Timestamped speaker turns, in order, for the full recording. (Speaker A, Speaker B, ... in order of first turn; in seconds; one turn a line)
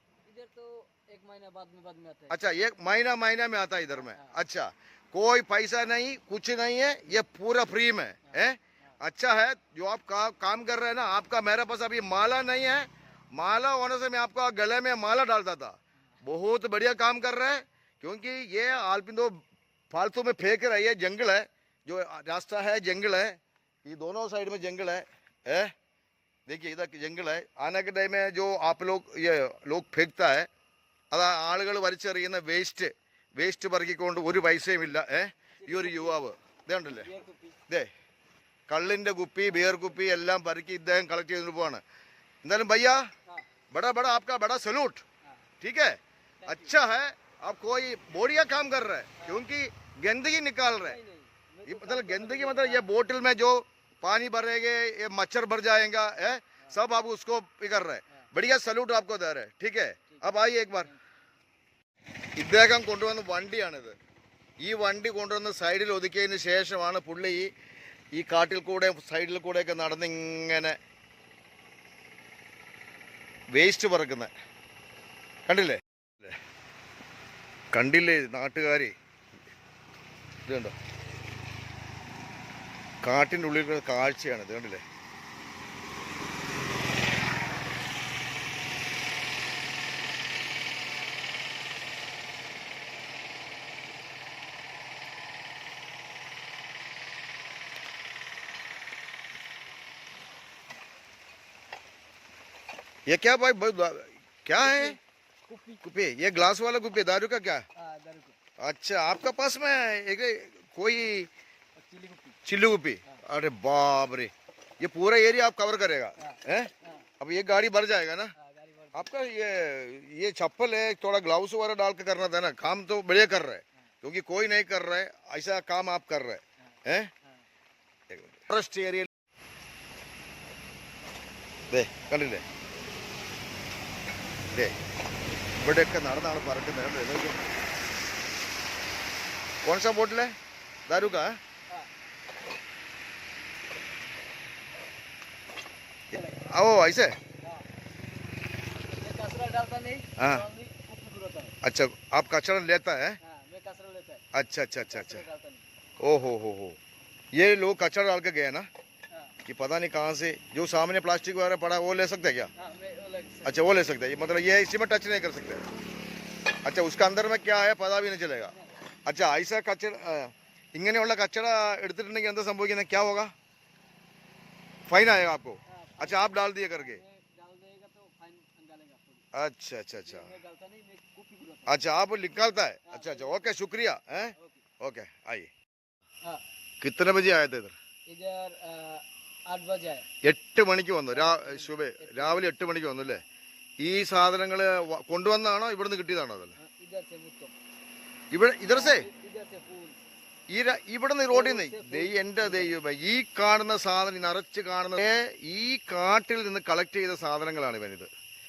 Speaker A: 0.3-2.4
Speaker B: 2.3-19.4
Speaker A: 3.9-4.3
Speaker A: 8.3-8.9
Speaker B: 19.9-25.7
Speaker B: 26.5-30.5
Speaker B: 31.1-37.1
Speaker A: 35.6-36.2
Speaker A: 36.9-37.6
Speaker B: 38.7-41.8
Speaker A: 39.5-40.0
Speaker B: 42.4-43.0
Speaker B: 43.7-45.0
Speaker B: 45.6-51.0
Speaker A: 46.4-46.8
Speaker A: 50.8-52.9
Speaker B: 51.6-60.9
Speaker A: 60.1-61.0
Speaker B: 62.4-64.0
Speaker B: 64.6-67.5
Speaker B: 68.1-70.8
Speaker B: 73.5-74.3
Speaker B: 75.5-76.4
Speaker B: 77.7-78.9
Speaker B: 80.5-80.7
Speaker B: 83.0-84.8
Speaker B: 103.1-105.0
Speaker A: 104.6-105.8
Speaker B: 105.8-107.6
Speaker A: 107.8-108.4
Speaker B: 108.6-111.3
Speaker A: 111.8-112.4
Speaker B: 112.5-118.3
Speaker A: 116.2-117.1
Speaker A: 118.4-119.1
Speaker B: 118.9-127.1
Speaker B: 128.1-129.1
Speaker B: 131.7-132.4
Speaker B: 135.6-137.4
Speaker B: 139.6-140.3
Speaker B: 140.9-141.4
Speaker A: 140.9-141.9
Speaker A: 146.1-146.4
Speaker B: 146.3-147.2
Speaker A: 148.9-151.5
Speaker B: 150.2-150.5
Speaker B: 151.6-153.2
Speaker A: 153.2-154.2
Speaker B: 154.3-155.2
Speaker A: 154.8-155.6
Speaker B: 156.0-156.8
Speaker B: 157.3-158.7
Speaker B: 159.5-162.5
Speaker A: 162.6-163.6
Speaker B: 163.4-165.6
Speaker B: 166.6-168.5
Speaker A: 168.4-168.7
Speaker B: 169.1-173.3
Speaker B: 174.9-177.0
Speaker A: 175.7-179.2
Speaker B: 179.3-180.3
Speaker A: 180.1-181.7
Speaker B: 181.7-185.5
Speaker A: 182.9-183.5
Speaker A: 184.4-184.6
Speaker B: 186.8-187.7
Speaker A: 188.1-190.1
Speaker B: 190.2-193.2
Speaker A: 191.1-193.1
Speaker B: 193.8-196.6
Speaker A: 196.6-197.5
Speaker B: 198.3-199.1
Speaker A: 198.7-200.0
Speaker B: 200.5-208.1
Speaker A: 201.3-202.7